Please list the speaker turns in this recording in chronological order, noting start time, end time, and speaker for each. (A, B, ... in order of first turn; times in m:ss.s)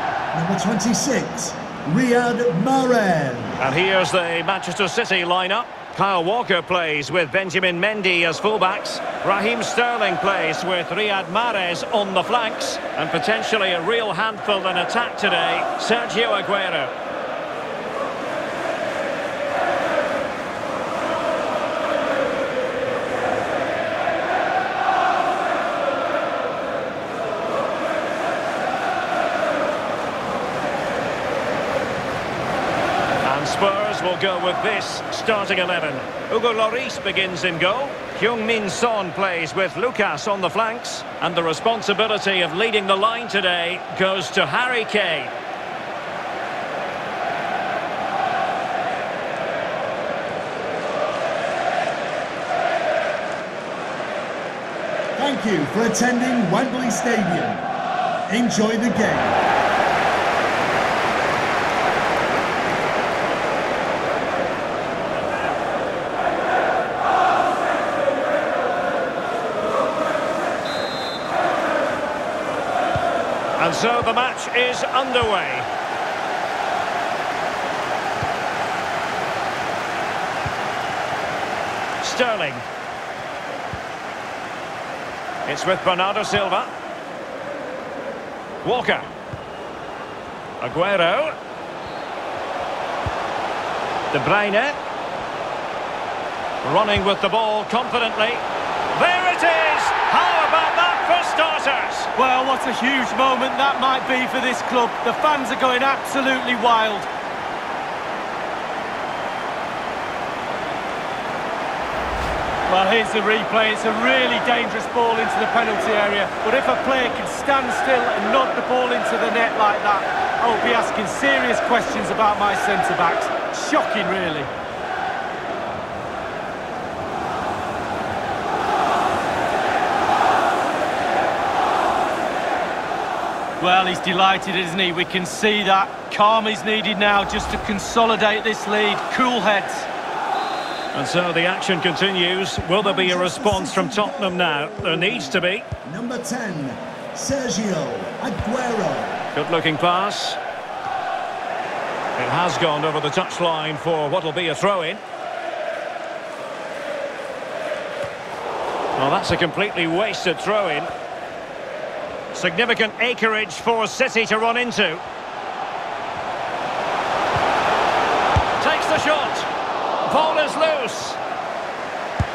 0:00.3-0:03.6 A
0:03.6-0:16.9 B
0:33.2-0:45.3 B
0:55.2-0:57.7 A
0:58.3-0:59.4 A
1:13.6-1:15.7 B
1:22.0-1:22.6 B
1:25.5-1:26.7 B
1:28.6-1:29.0 B
1:30.6-1:31.3 B
1:34.1-1:34.8 B
1:36.6-1:42.1 B
1:42.2-1:47.1 C
1:52.7-2:04.5 C
2:13.6-2:19.9 C
2:20.9-2:25.7 B
2:22.8-2:29.3 A
2:29.3-2:30.4 B
2:32.2-2:35.0 B
2:39.0-2:40.9 B
2:42.3-2:45.0 B
2:48.6-2:49.5 B
2:50.1-2:51.2 B